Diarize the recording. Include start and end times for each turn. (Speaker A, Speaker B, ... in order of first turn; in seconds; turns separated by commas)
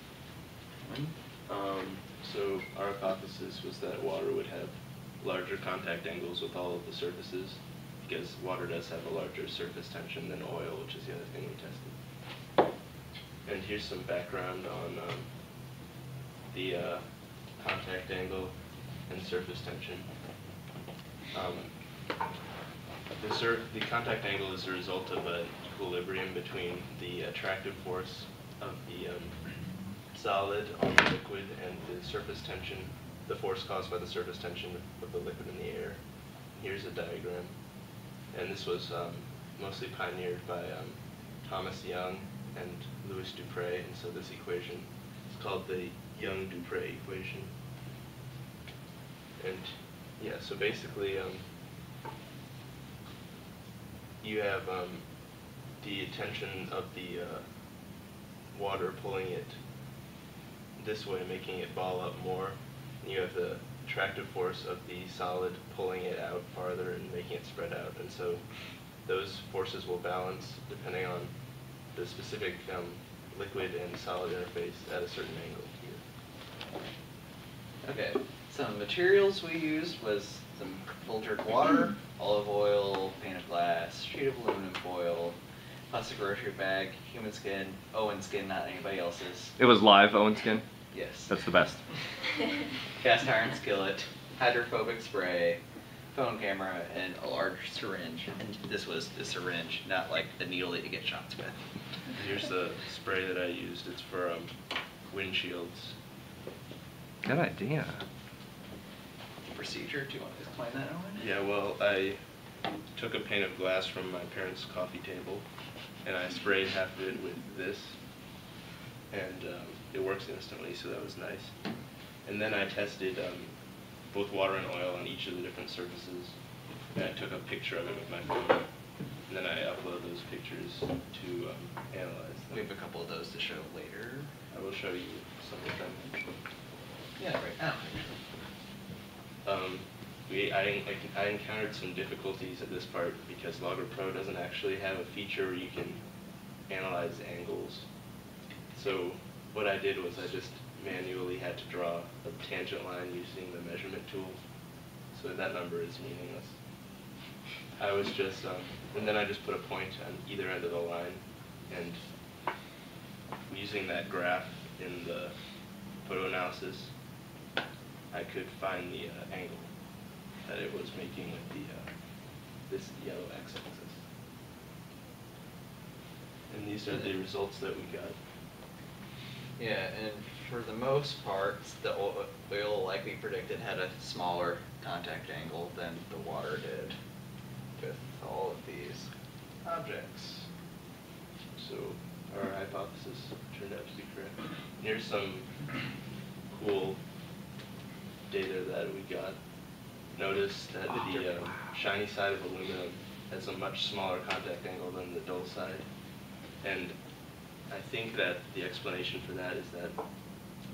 Speaker A: 0.8-1.1, Speaker B: 1.5-12.0, Speaker B: 13.5-15.3, Speaker B: 16.5-20.1, Speaker B: 21.3-21.8, Speaker B: 23.2-37.6, Speaker B: 38.3-47.5, Speaker B: 49.4-51.5, Speaker B: 54.2-55.1, Speaker B: 55.7-57.5, Speaker B: 58.5-59.6, Speaker B: 60.8-68.5, Speaker B: 69.0-71.3, Speaker B: 71.9-76.0, Speaker A: 77.8-85.4, Speaker A: 85.9-89.6, Speaker C: 89.6-90.7, Speaker A: 90.9-91.3, Speaker C: 91.3-91.8, Speaker A: 93.0-95.6, Speaker A: 96.1-101.6, Speaker B: 102.1-104.5, Speaker B: 105.1-106.0, Speaker C: 107.2-108.0, Speaker A: 109.5-111.3, Speaker B: 111.2-112.2, Speaker B: 112.9-115.5, Speaker B: 116.0-118.0, Speaker B: 119.1-121.6, Speaker B: 122.2-126.4, Speaker B: 126.9-128.7, Speaker B: 129.3-132.7, Speaker A: 132.5-134.3, Speaker B: 134.5-136.2, Speaker A: 137.2-138.2, Speaker B: 139.4-146.1, Speaker B: 146.6-147.9, Speaker B: 148.7-154.4, Speaker B: 155.1-156.6, Speaker B: 157.8-162.0, Speaker B: 163.5-165.3, Speaker B: 166.0-166.9, Speaker B: 168.1-169.7, Speaker B: 170.4-171.9, Speaker B: 172.6-174.0, Speaker B: 176.5-178.2, Speaker A: 179.6-187.0, Speaker A: 187.8-189.1, Speaker B: 189.7-190.3, Speaker A: 189.7-190.4, Speaker B: 191.6-195.8, Speaker B: 196.5-197.0, Speaker B: 198.3-199.4, Speaker B: 200.1-205.9, Speaker B: 206.6-207.0, Speaker B: 207.7-210.0